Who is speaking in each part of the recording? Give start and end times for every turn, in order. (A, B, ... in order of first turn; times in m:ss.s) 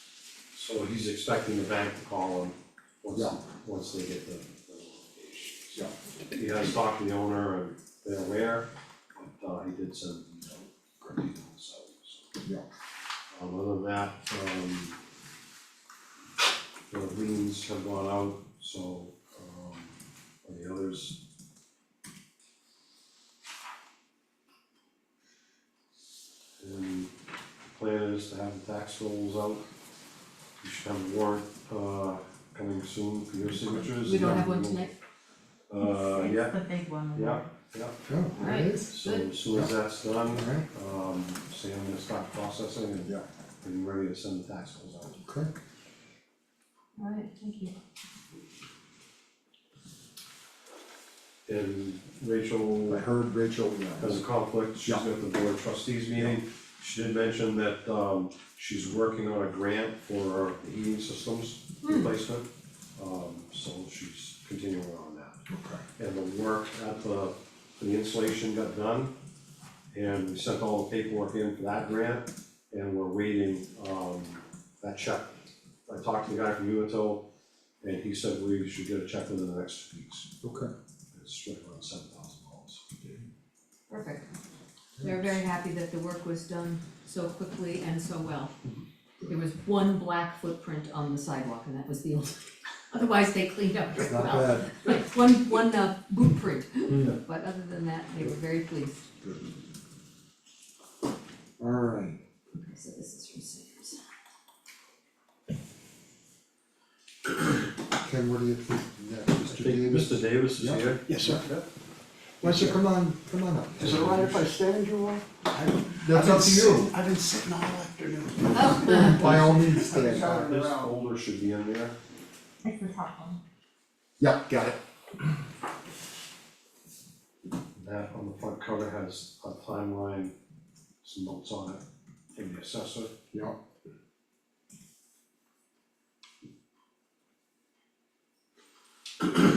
0:00.5-0:12.4 A
0:13.3-0:15.0 A
0:16.9-0:21.2 A
0:26.6-0:27.1 A
0:27.7-0:29.6 A
0:30.6-0:34.8 A
0:34.0-0:34.9 B
0:35.7-0:36.6 A
0:35.8-0:37.4 C
0:37.1-0:38.0 A
0:38.0-0:38.9 D
0:38.3-0:39.3 B
0:38.9-0:45.2 A
0:40.3-0:40.6 D
0:45.2-0:45.5 D
0:47.0-0:47.7 B
0:51.4-0:53.0 A
0:52.9-0:54.2 D
0:54.0-1:05.4 A
1:01.8-1:02.1 B
1:05.5-1:05.8 D
1:06.0-1:09.1 A
1:09.9-1:17.2 A
1:17.8-1:20.3 A
1:20.4-1:20.7 D
1:21.1-1:23.2 A
1:23.9-1:24.3 B
1:25.0-1:25.4 D
1:25.0-1:28.6 B
1:29.2-1:39.1 B
1:34.0-1:34.9 D
1:36.9-1:37.2 D
1:41.6-1:42.2 D
1:42.5-1:44.0 B
1:48.0-1:51.5 D
1:49.4-1:51.0 A
1:51.0-1:51.6 E
1:52.4-1:54.3 D
1:52.4-1:52.8 E
1:53.8-2:01.0 E
1:54.0-1:54.4 A
1:56.0-1:56.9 D
1:58.5-1:59.2 B
1:58.7-2:00.4 D
1:59.1-1:59.4 A
2:00.0-2:02.0 A
2:02.6-2:03.4 C
2:04.2-2:04.8 D
2:07.8-2:10.3 A
2:11.0-2:13.2 A